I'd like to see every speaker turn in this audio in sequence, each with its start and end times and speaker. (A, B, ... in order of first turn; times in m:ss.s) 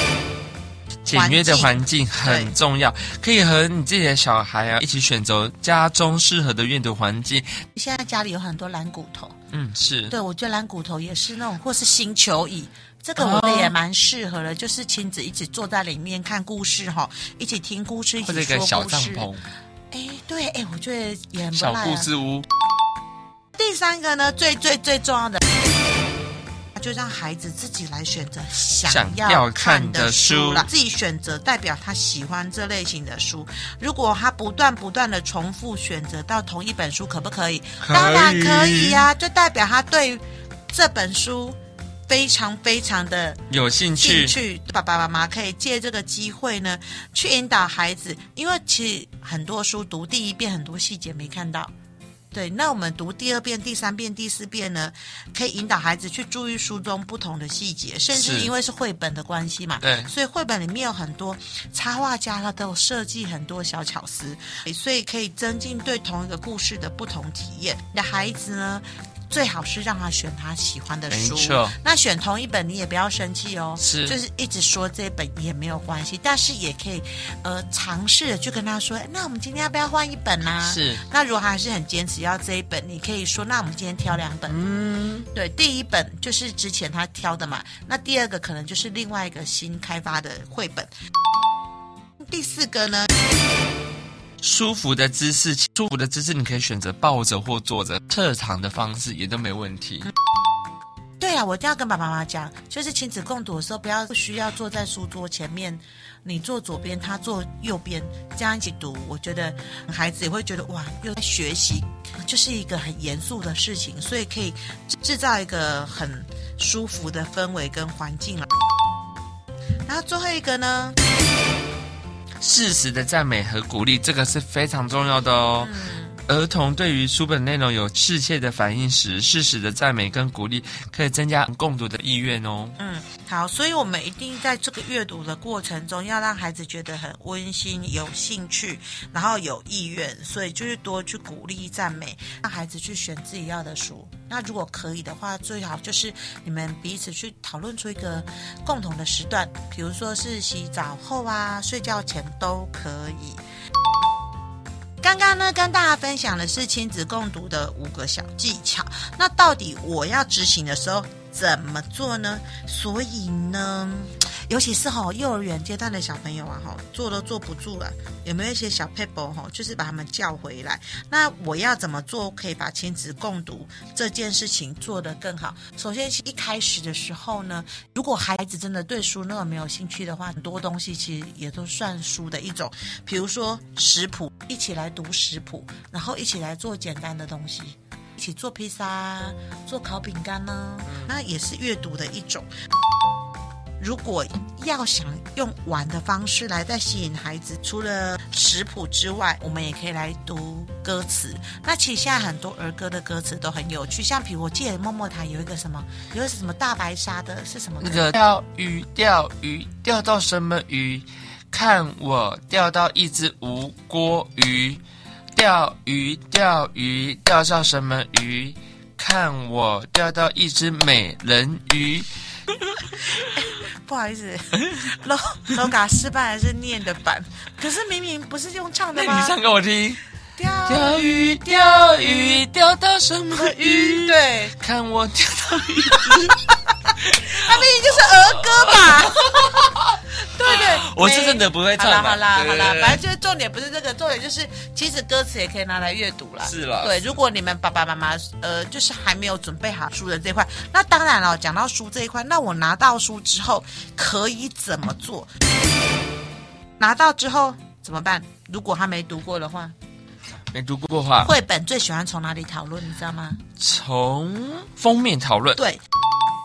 0:01.0-0:07.6 A
0:01.1-0:02.5 B
0:07.7-0:09.4 B
0:09.5-0:10.1 A
0:10.1-0:19.3 B
0:13.2-0:13.8 A
0:18.2-0:19.4 A
0:19.9-0:22.1 B
0:21.5-0:22.4 A
0:23.6-0:25.4 B
0:26.7-0:41.6 B
0:28.9-0:30.6 A
0:37.8-0:39.1 A
0:42.1-0:43.4 B
0:43.5-0:44.4 A
0:44.0-0:51.7 B
0:52.3-1:24.6 B
0:58.1-0:58.5 A
0:59.8-1:00.1 A
1:11.1-1:11.8 A
1:13.8-1:14.1 A
1:20.6-1:21.0 A
1:24.5-1:25.3 A
1:25.3-1:30.9 B
1:32.2-1:33.1 B
1:34.4-1:40.1 A
1:41.2-1:58.5 B
1:59.9-2:01.0 B
2:02.4-2:05.7 A
2:05.6-2:06.2 B
2:06.3-2:12.8 A
2:12.8-2:33.4 B
2:35.0-3:12.5 B
3:10.8-3:11.1 A
3:13.8-3:28.1 B
3:27.8-3:34.8 A
3:35.3-3:42.8 A
3:43.1-3:49.3 B
3:48.9-3:50.0 A
3:50.4-3:51.4 B
3:50.6-4:03.0 A
3:53.3-3:54.6 B
3:56.8-4:15.3 B
4:06.4-4:07.1 A
4:16.8-4:19.7 B
4:20.5-4:21.3 A
4:21.2-4:23.4 B
4:23.6-4:25.6 A
4:25.6-4:25.8 B